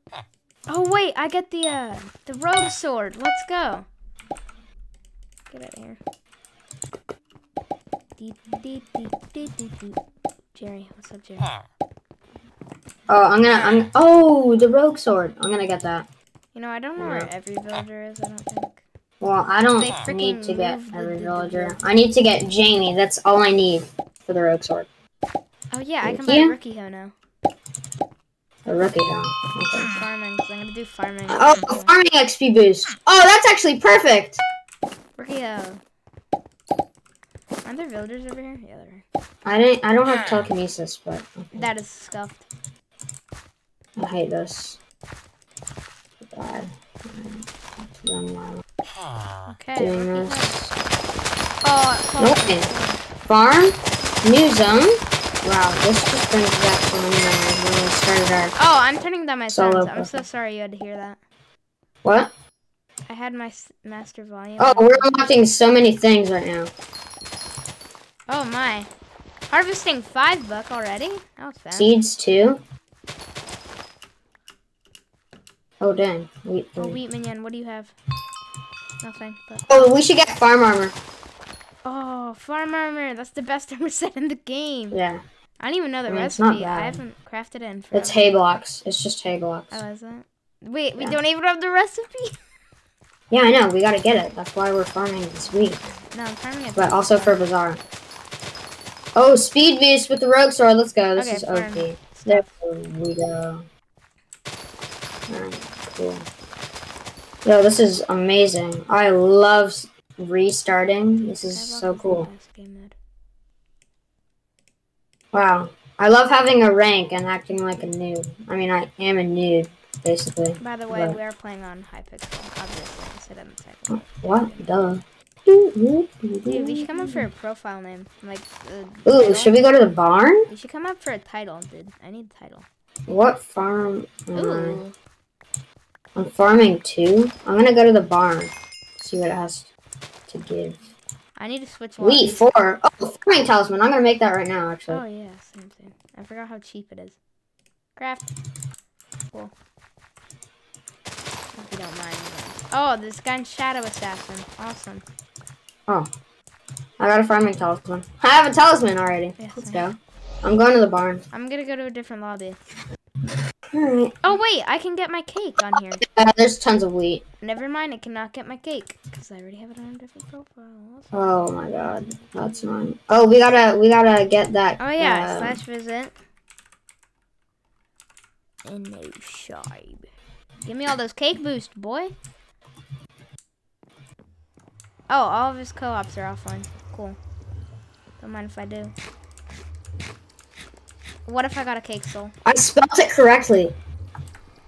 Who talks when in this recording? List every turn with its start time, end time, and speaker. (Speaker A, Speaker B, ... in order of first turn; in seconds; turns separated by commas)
Speaker A: 0.7-3.9, Speaker A: 5.5-6.0, Speaker A: 8.2-10.0, Speaker A: 10.5-11.5, Speaker B: 13.1-16.1, Speaker A: 16.5-18.8, Speaker B: 17.0-17.3, Speaker B: 19.2-24.9, Speaker A: 19.8-21.8, Speaker A: 25.7-27.1, Speaker B: 26.0-26.5, Speaker B: 28.7-30.0, Speaker A: 29.8-31.9, Speaker B: 31.3-34.4, Speaker A: 35.2-35.8, Speaker A: 37.6-39.0, Speaker B: 39.5-41.7, Speaker A: 41.5-42.5, Speaker B: 44.0-44.8, Speaker B: 46.2-48.6, Speaker A: 49.5-50.5, Speaker B: 49.8-50.7, Speaker A: 51.6-53.0, Speaker B: 52.2-52.7, Speaker B: 53.3-58.5, Speaker A: 58.6-61.2, Speaker B: 59.5-60.2, Speaker B: 62.0-62.3, Speaker A: 63.1-65.2, Speaker B: 64.6-66.7, Speaker A: 68.3-68.9, Speaker A: 69.5-71.9, Speaker B: 71.8-72.6, Speaker B: 75.8-77.0, Speaker A: 76.8-77.9, Speaker A: 79.0-79.9, Speaker B: 79.7-81.0, Speaker A: 81.8-85.0, Speaker B: 84.9-85.2, Speaker A: 85.6-88.2, Speaker B: 86.1-87.0, Speaker B: 87.9-89.8, Speaker A: 89.7-92.3, Speaker B: 93.3-95.9, Speaker A: 96.1-97.4, Speaker B: 96.8-97.8, Speaker B: 99.2-103.7, Speaker A: 101.2-102.5, Speaker B: 105.3-106.3, Speaker B: 107.5-112.3, Speaker A: 111.5-113.0, Speaker B: 115.3-121.2, Speaker A: 120.6-124.7, Speaker B: 123.9-127.3, Speaker A: 126.5-129.6, Speaker B: 129.1-130.5, Speaker A: 130.5-132.7, Speaker B: 133.1-134.8, Speaker A: 134.3-135.0, Speaker B: 136.2-139.7, Speaker B: 140.3-140.8, Speaker A: 141.4-142.5, Speaker B: 142.0-145.0, Speaker A: 144.9-147.2, Speaker A: 148.0-148.3, Speaker A: 151.6-155.1, Speaker B: 157.0-161.3, Speaker A: 159.4-159.8, Speaker A: 161.3-162.6, Speaker B: 163.7-164.2, Speaker A: 164.2-166.1, Speaker B: 166.0-167.2, Speaker A: 167.4-171.4, Speaker B: 171.1-175.6, Speaker A: 174.8-176.2, Speaker A: 178.7-180.1, Speaker A: 180.7-182.2, Speaker A: 185.1-187.2, Speaker A: 188.2-188.9, Speaker A: 191.3-192.3, Speaker B: 192.4-193.8